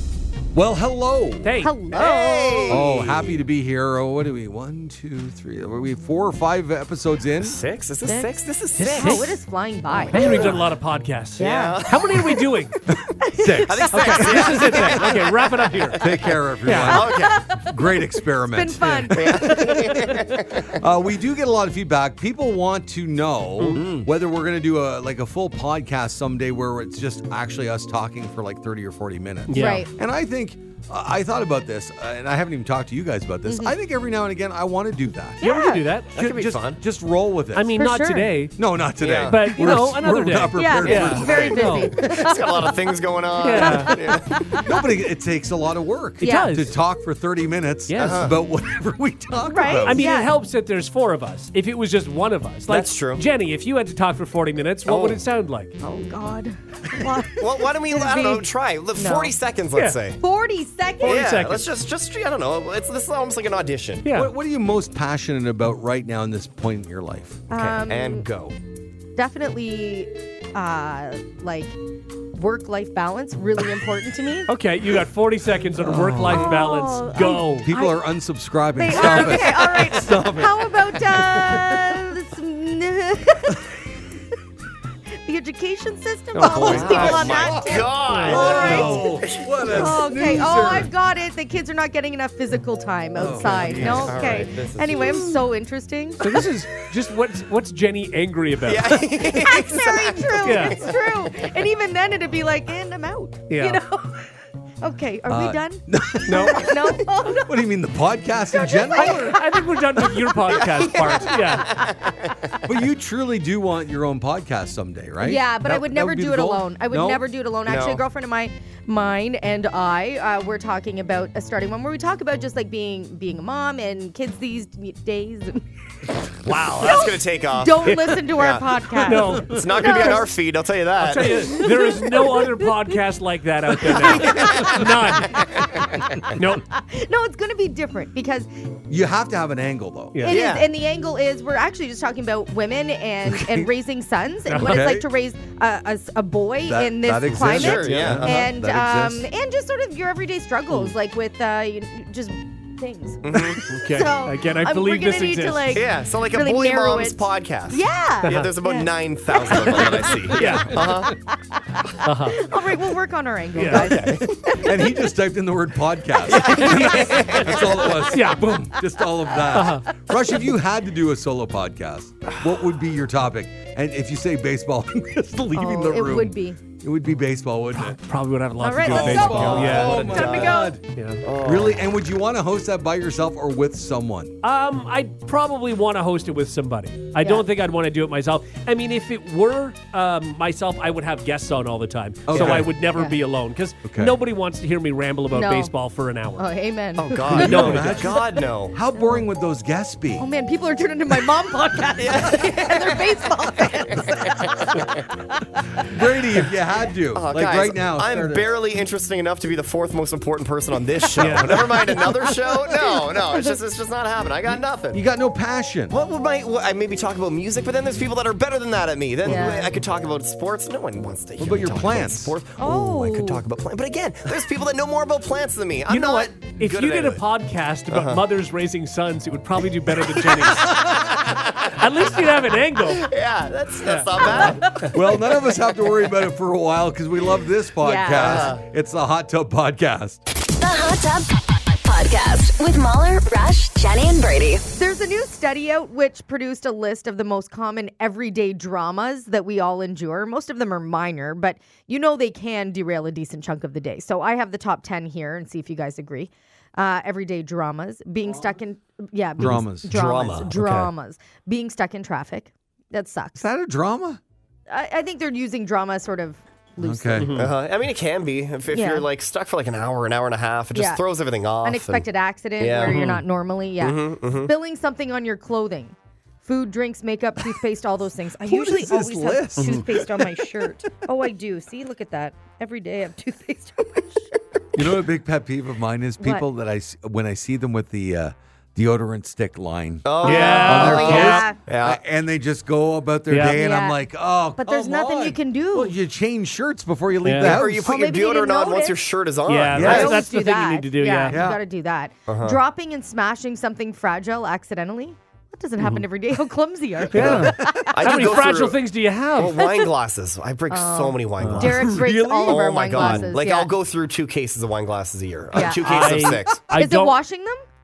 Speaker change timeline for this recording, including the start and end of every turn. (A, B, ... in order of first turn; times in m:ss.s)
0:00.5-0:01.6 A
0:01.4-0:01.7 B
0:01.6-0:02.8 C
0:01.9-0:03.4 D
0:02.7-0:07.6 A
0:07.4-0:09.4 D
0:08.0-0:10.2 C
0:08.8-0:09.3 B
0:10.1-0:12.8 B
0:10.1-0:10.6 D
0:11.4-0:11.9 C
0:11.4-0:12.4 D
0:12.9-0:14.4 A
0:13.2-0:14.8 C
0:13.6-0:17.4 D
0:13.9-0:16.1 B
0:16.0-0:35.4 A
0:16.6-0:17.0 B
0:16.9-0:20.1 C
0:19.1-0:20.8 D
0:23.6-0:23.8 B
0:23.7-0:24.1 D
0:29.5-0:29.8 B
0:29.5-0:29.9 C
0:33.5-0:33.8 C
0:35.4-0:35.8 C
0:35.4-0:36.1 B
0:36.1-0:37.8 A
0:36.2-0:36.8 D
0:37.5-0:38.6 B
0:37.8-0:38.4 C
0:38.6-0:41.9 A
0:39.0-0:39.4 D
0:39.2-0:42.0 B
0:40.6-0:42.7 C
0:41.1-0:44.3 D
0:43.4-0:44.0 B
0:43.5-0:44.8 C
0:44.5-0:50.1 A
0:46.2-0:46.6 C
0:46.2-0:46.7 B
0:47.9-0:48.3 B
0:48.0-0:48.4 D
0:49.5-0:50.3 C
0:49.8-0:55.7 B
0:52.7-0:53.2 D
0:54.8-0:55.2 D
0:55.8-0:59.4 C
0:57.4-1:00.2 D
0:59.7-1:00.0 B
1:00.2-1:01.2 C
1:01.0-1:01.7 B
1:01.0-1:04.1 D
1:04.0-1:04.3 B
1:04.1-1:07.4 A
1:07.5-1:08.2 C
1:07.8-1:08.6 D
1:09.2-1:11.8 C
1:12.3-1:14.5 C
1:14.5-1:17.7 B
1:15.8-1:16.5 A
1:16.3-1:18.0 C
1:17.6-1:22.1 A
1:18.7-1:23.7 C
1:19.0-1:19.4 B
1:25.2-1:29.1 C
1:26.3-1:27.2 B
1:26.4-1:30.9 A
1:26.4-1:29.8 D
1:28.0-1:29.0 B
1:29.7-1:36.2 C
1:33.1-1:34.4 A
1:33.3-1:35.4 D
1:36.2-1:39.0 B
1:38.6-1:41.5 D
1:39.3-1:47.7 C
1:40.4-1:40.8 B
1:43.5-1:43.8 B
1:45.3-1:49.4 A
1:46.3-1:46.7 B
1:48.5-1:50.1 C
1:48.9-1:51.7 B
1:50.5-1:52.6 D
1:52.6-1:57.2 A
1:55.2-2:05.6 C
1:57.7-1:58.0 D
2:06.4-2:08.7 D
2:06.8-2:10.3 C
2:09.0-2:10.3 B
2:09.4-2:11.4 D
2:11.0-2:15.5 B
2:11.4-2:12.9 C
2:13.9-2:15.8 D
2:14.0-2:14.8 C
2:16.3-2:16.6 B
2:16.7-2:18.5 C
2:18.9-2:20.2 A
2:20.1-2:20.6 B
2:20.2-2:44.8 C
2:20.3-2:20.7 D
2:23.3-2:23.7 A
2:24.4-2:24.9 B
2:24.6-2:25.1 A
2:26.6-2:29.3 A
2:27.3-2:28.5 D
2:33.2-2:33.7 D
2:33.7-2:35.8 B
2:35.7-2:41.2 D
2:38.2-2:38.5 B
2:39.6-2:41.1 B
2:42.0-2:42.4 B
2:43.5-2:44.1 B
2:43.7-2:44.3 D
2:44.0-2:58.0 A
2:46.3-2:47.5 B
2:46.3-2:47.4 C
2:47.5-2:47.8 D
2:48.1-2:48.5 B
2:49.5-2:49.9 B
2:55.5-2:56.6 C
2:57.7-3:00.2 B
2:58.6-3:00.8 C
2:58.8-3:00.8 A
2:58.9-3:00.7 D
3:00.9-3:01.2 B
3:01.2-3:01.8 D
3:01.3-3:04.4 A
3:04.4-3:16.4 B
3:12.2-3:12.7 A
3:12.3-3:12.7 D
3:13.8-3:14.2 A
3:15.3-3:15.7 C
3:16.4-3:19.3 C
3:17.0-3:18.8 D
3:17.3-3:20.3 A
3:17.3-3:18.0 B
3:20.2-3:25.4 C
3:22.0-3:23.3 D
3:23.9-3:24.1 D
3:25.8-3:28.5 A
3:27.1-3:35.0 D
3:31.2-3:32.0 B
3:31.9-3:33.6 C
3:34.9-3:35.9 A
3:35.9-3:47.2 D
3:39.2-3:39.7 C
3:41.4-3:42.4 A
3:42.6-3:43.4 C
3:45.9-3:53.1 B
3:47.9-3:48.2 D
3:51.3-3:51.8 D
3:53.0-3:54.9 D
3:53.8-3:54.9 B
3:54.4-3:54.8 C
3:54.8-4:00.2 A
3:57.8-3:58.6 C
3:58.1-3:58.6 D
4:00.6-4:04.6 E
4:04.7-4:23.4 C
4:18.2-4:18.5 A
4:19.4-4:19.9 A
4:19.9-4:20.5 D
4:20.6-4:20.9 B
4:23.4-4:24.2 A
4:24.7-4:27.4 C
4:26.8-4:27.4 A
4:27.2-4:27.5 B
4:27.3-4:32.0 D
4:28.7-4:29.1 C
4:30.7-4:31.0 C
4:31.6-4:44.3 C
4:32.6-4:33.1 D
4:32.8-4:33.2 B
4:33.8-4:34.5 D
4:38.4-4:40.8 A
4:44.8-4:57.9 A
4:46.2-4:46.4 C
4:50.0-4:52.0 D
4:50.2-4:51.5 B
4:50.2-4:51.6 C
4:53.3-4:53.6 B
4:53.5-4:54.0 C
4:54.6-4:55.9 C
4:57.2-4:57.6 B
4:57.4-5:00.2 D
4:57.8-4:59.0 C
4:59.4-5:01.4 B
4:59.7-5:00.1 A
4:59.8-5:08.0 C
5:01.3-5:01.6 A
5:02.3-5:02.6 D
5:05.8-5:06.0 B
5:07.1-5:08.2 A
5:07.1-5:09.6 B
5:07.9-5:08.8 D
5:09.4-5:16.6 D
5:10.7-5:13.7 C
5:11.4-5:11.8 B
5:11.6-5:13.3 A
5:15.6-5:15.8 C
5:15.8-5:17.2 B
5:16.7-5:17.6 C